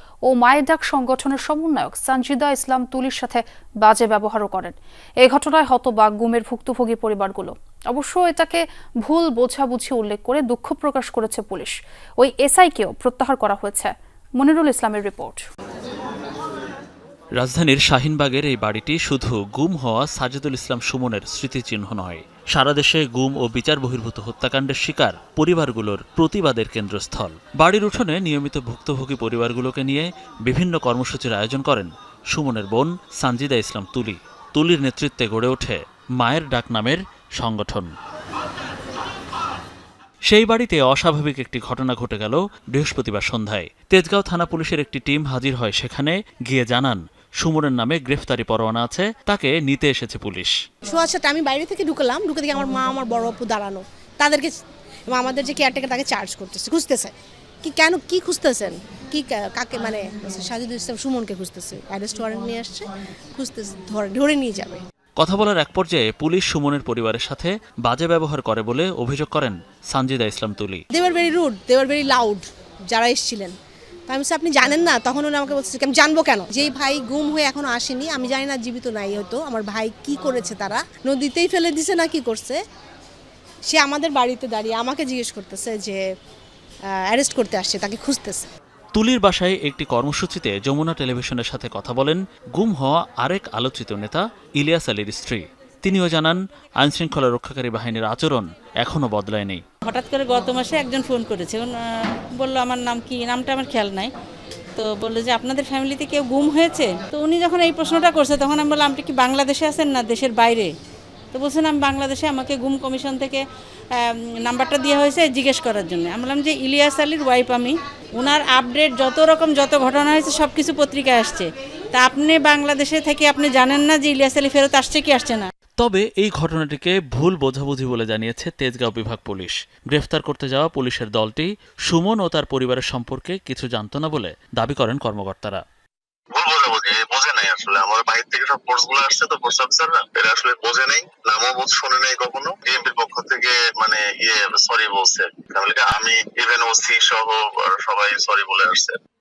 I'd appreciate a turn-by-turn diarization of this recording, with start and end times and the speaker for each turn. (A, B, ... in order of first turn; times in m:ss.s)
0:00.3-0:15.4 A
0:17.4-0:37.9 B
0:40.3-0:50.6 B
0:50.9-0:54.5 C
0:55.1-1:04.8 C
1:05.2-1:10.8 B
1:10.9-1:13.5 C
1:14.1-1:22.6 C
1:23.7-1:26.0 C
1:27.1-1:28.5 C
1:28.9-1:39.6 B
1:39.9-1:44.1 D
1:44.8-1:50.7 D
1:51.3-2:05.5 D
2:05.8-2:15.6 B
2:16.3-2:29.0 E